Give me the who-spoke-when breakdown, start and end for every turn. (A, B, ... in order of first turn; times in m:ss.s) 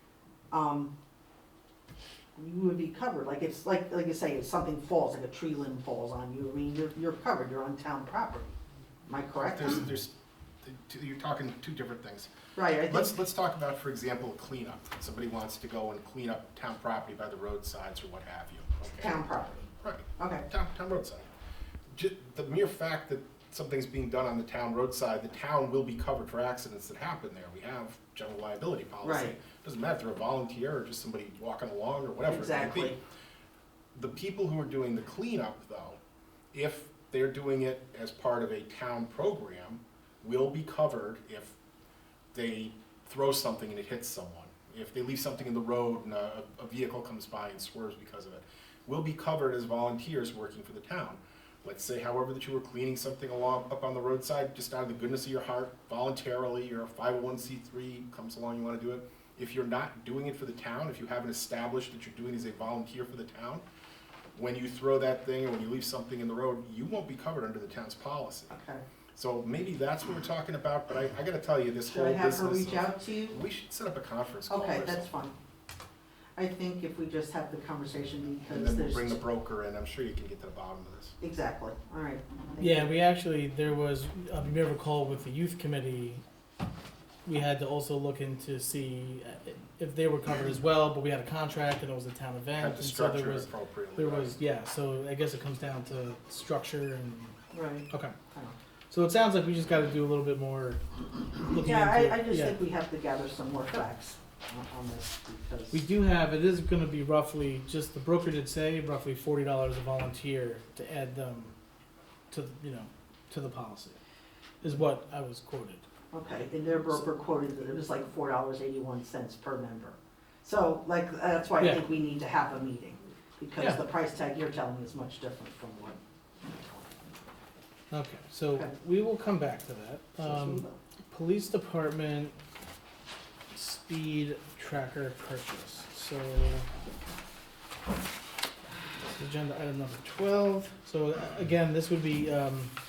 0:00.5-0:00.9 A
0:02.4-0:08.6 A
0:09.1-0:09.9 A
0:09.3-0:12.3 B
0:12.6-0:13.2 A
0:12.9-0:19.2 B
0:18.9-0:20.5 A
0:19.8-0:21.3 B
0:21.9-0:33.0 B
0:29.0-0:29.3 A
0:32.3-0:33.0 A
0:34.0-0:36.0 B
0:36.5-0:41.6 B
0:42.3-1:03.6 B
1:04.4-1:08.5 B
1:08.5-1:08.8 A
1:09.2-1:15.2 B
1:11.9-1:13.4 A
1:14.5-1:15.4 A
1:16.4-1:19.2 A
1:18.4-1:21.1 B
1:21.2-1:22.9 A
1:22.6-1:26.2 C
1:27.3-1:37.4 C
1:32.6-1:34.3 B
1:37.5-1:38.6 A
1:37.9-1:38.2 C
1:38.9-1:42.6 C
1:41.6-1:45.8 A
1:45.7-1:51.6 C
1:52.3-1:54.0 C
1:54.6-1:55.8 C
1:56.1-2:06.0 A
2:03.6-2:03.8 C
2:07.9-2:12.4 C
2:10.2-2:10.8 A
2:13.5-2:16.7 C
2:19.1-2:22.7 C